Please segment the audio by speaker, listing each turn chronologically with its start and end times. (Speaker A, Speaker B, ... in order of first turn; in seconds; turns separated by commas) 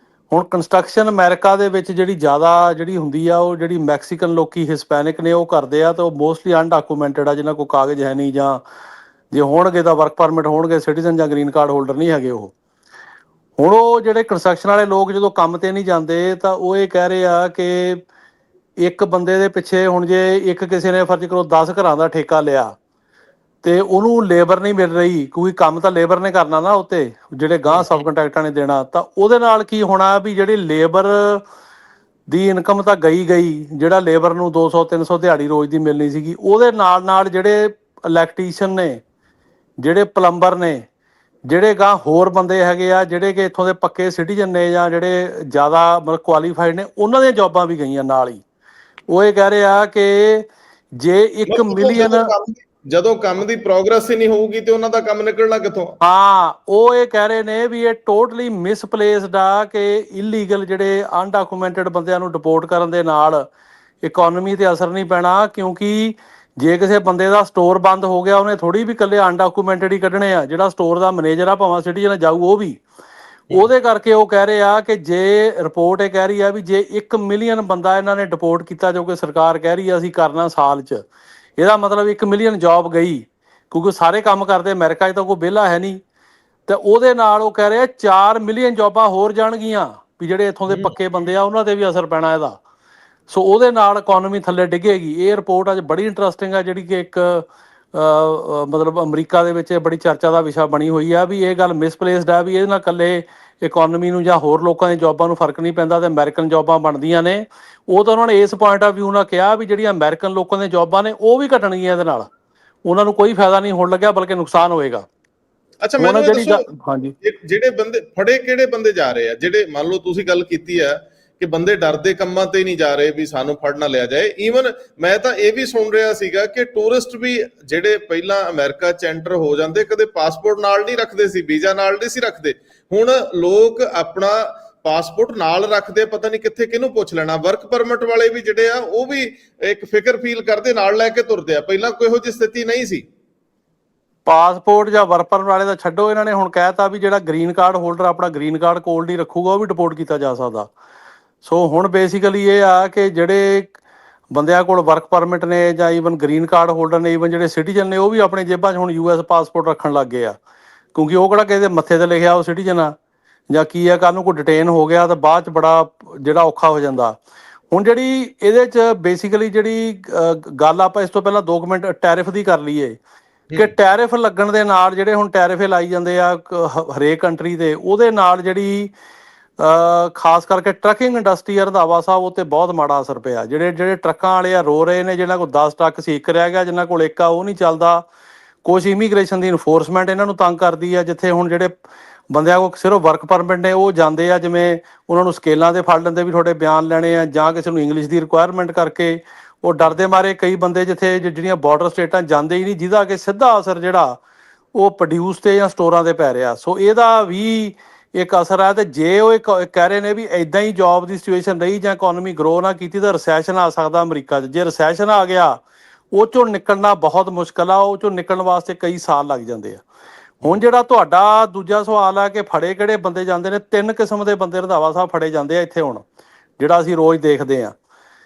Speaker A: 0.3-8.6, Speaker A: 9.3-12.5, Speaker A: 13.6-18.0, Speaker A: 18.8-22.7, Speaker A: 23.6-31.4, Speaker B: 27.7-28.0, Speaker A: 32.3-39.0, Speaker A: 39.8-40.9, Speaker A: 41.5-48.4, Speaker A: 49.1-52.3, Speaker B: 51.5-56.0, Speaker A: 56.0-63.5, Speaker A: 64.0-72.8, Speaker A: 73.5-81.0, Speaker A: 81.6-86.0, Speaker A: 86.7-92.6, Speaker B: 90.7-90.9, Speaker A: 93.3-112.3, Speaker A: 112.8-115.0, Speaker B: 115.8-116.6, Speaker A: 116.0-117.1, Speaker B: 117.2-143.0, Speaker A: 144.2-150.7, Speaker A: 151.4-153.7, Speaker A: 154.3-160.3, Speaker A: 160.9-162.9, Speaker A: 163.5-167.2, Speaker A: 167.7-173.0, Speaker A: 173.6-178.9, Speaker A: 179.6-188.0, Speaker A: 188.6-191.8, Speaker A: 192.3-204.2, Speaker A: 204.7-215.6, Speaker A: 216.1-219.8, Speaker A: 220.4-226.0, Speaker A: 226.6-227.7